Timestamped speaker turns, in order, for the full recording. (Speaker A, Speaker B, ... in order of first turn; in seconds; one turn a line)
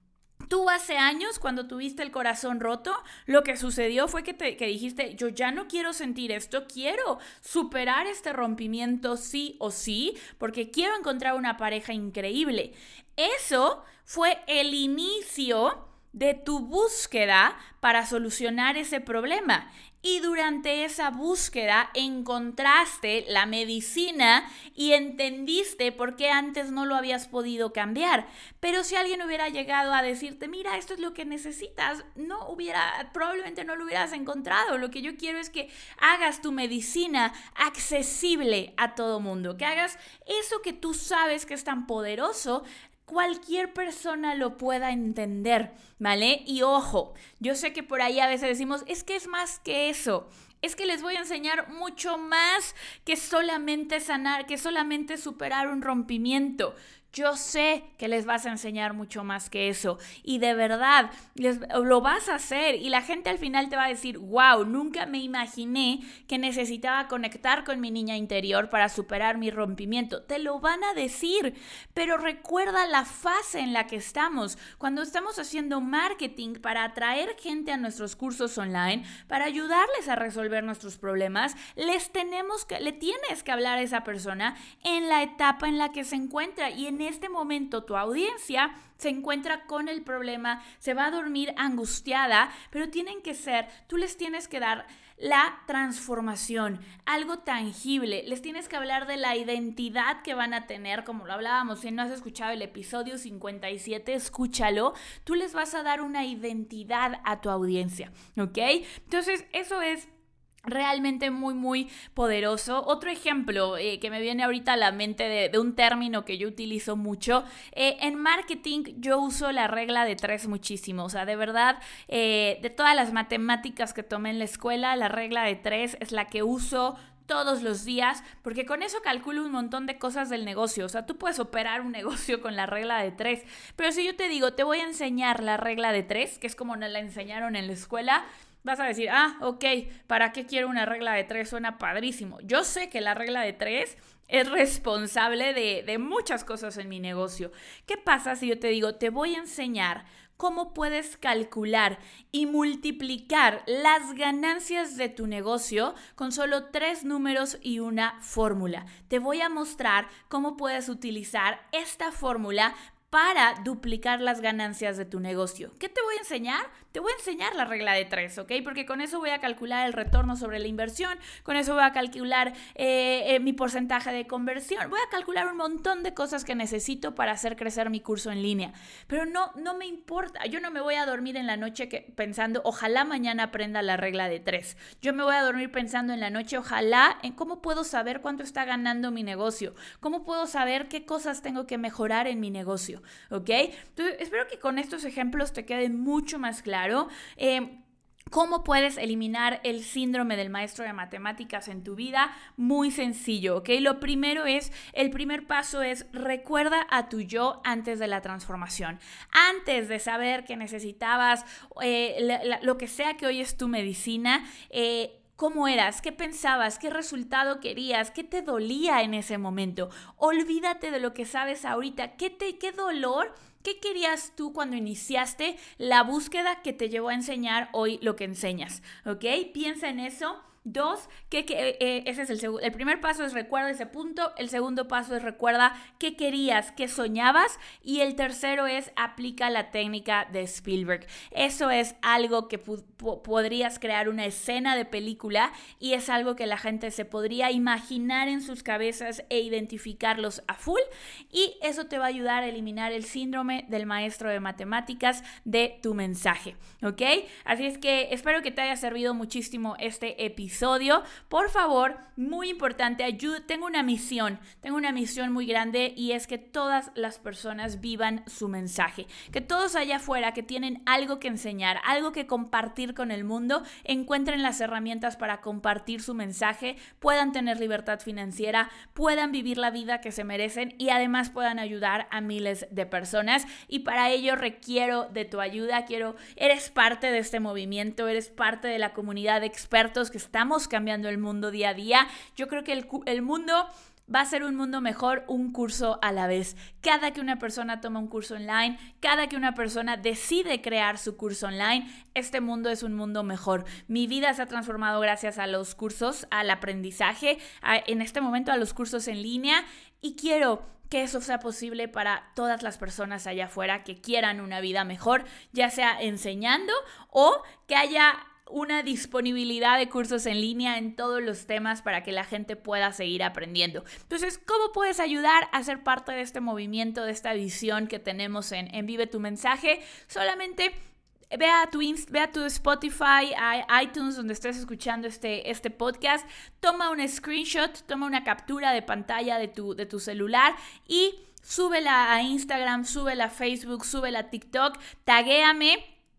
Speaker A: 0.5-110.1
Speaker A: 110.6-197.8
Speaker A: 198.3-330.7
Speaker A: 331.3-345.8